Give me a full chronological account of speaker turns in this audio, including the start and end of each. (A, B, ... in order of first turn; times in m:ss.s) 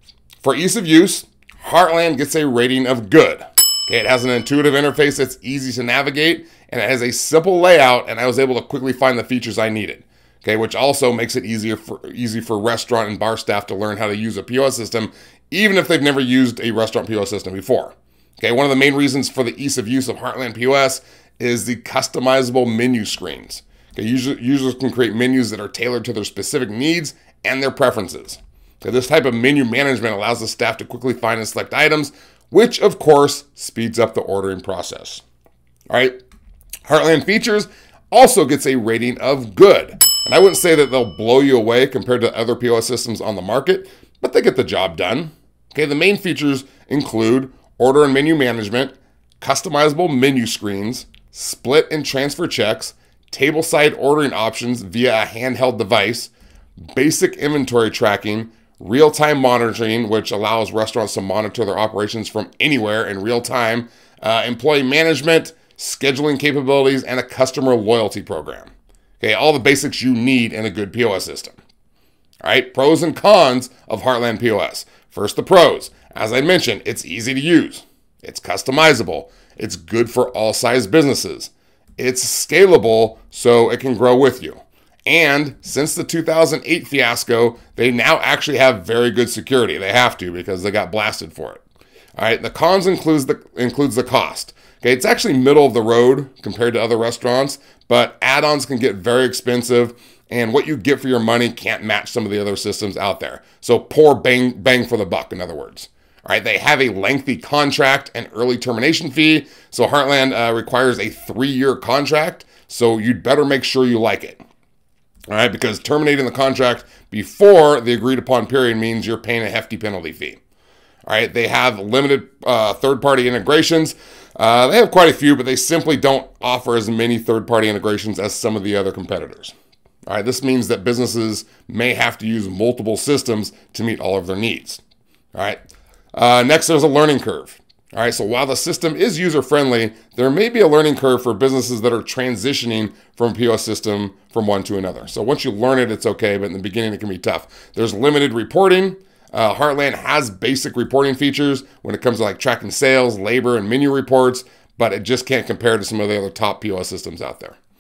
0:00.4-0:35.2 A
0:35.9-0:36.2 A
0:36.8-0:56.3 A
0:56.9-1:11.6 A
1:12.4-1:31.6 A
1:32.2-1:54.4 A
1:55.3-2:00.4 A
2:01.0-2:09.5 A
2:10.1-2:14.8 A
2:15.3-2:15.6 A
2:16.1-2:37.6 A